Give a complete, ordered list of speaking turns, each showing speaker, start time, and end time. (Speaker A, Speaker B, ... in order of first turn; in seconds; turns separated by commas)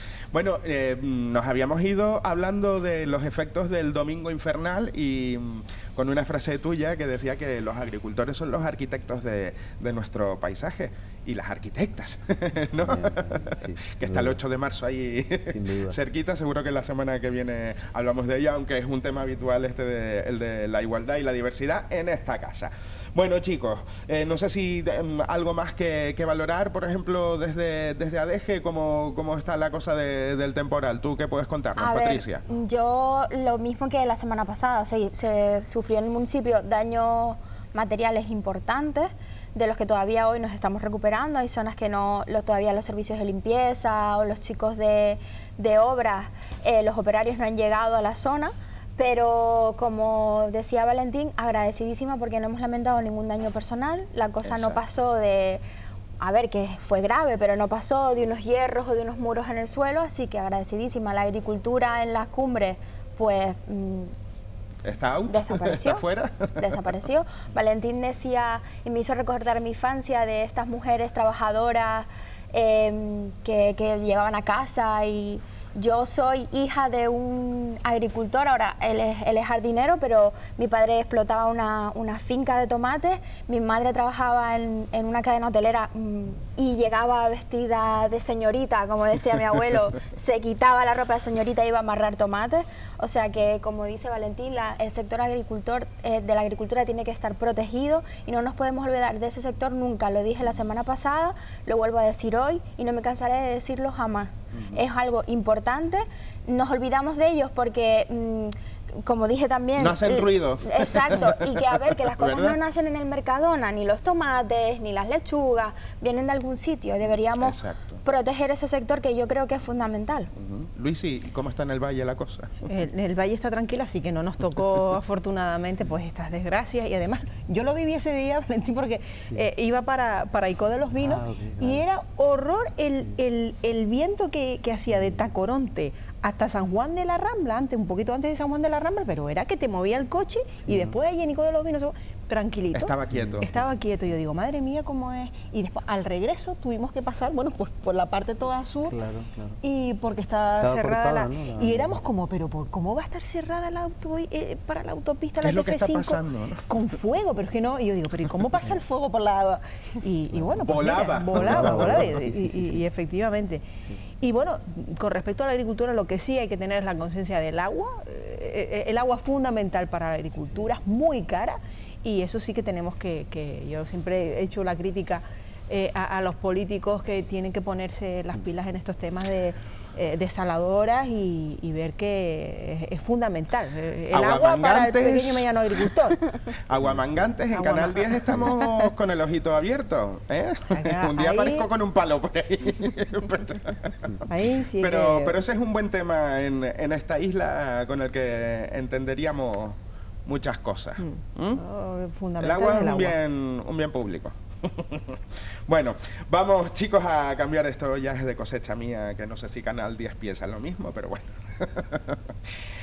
Speaker A: 0.3-32.4, Speaker B: 12.8-14.4, Speaker B: 15.4-16.0, Speaker C: 31.8-55.6, Speaker A: 54.4-54.8, Speaker C: 56.2-64.1, Speaker A: 64.8-66.7, Speaker C: 65.3-66.0, Speaker C: 66.6-120.3, Speaker A: 104.5-104.8, Speaker A: 109.8-112.6, Speaker A: 117.4-118.0, Speaker A: 120.4-122.7, Speaker D: 122.7-149.0, Speaker B: 131.0-131.8, Speaker B: 134.9-135.3, Speaker B: 140.6-141.0, Speaker A: 142.7-143.5, Speaker B: 143.1-143.6, Speaker B: 148.9-149.6, Speaker D: 149.6-163.6, Speaker B: 150.6-152.0, Speaker A: 155.4-156.6, Speaker B: 160.3-160.7, Speaker A: 160.6-162.2, Speaker B: 161.3-162.8, Speaker D: 164.2-186.3, Speaker A: 184.1-185.5, Speaker A: 186.7-194.1, Speaker B: 186.8-187.3, Speaker D: 187.5-188.9, Speaker D: 190.7-191.7, Speaker D: 194.3-195.4, Speaker A: 194.8-201.6, Speaker D: 201.0-203.2, Speaker A: 202.4-212.5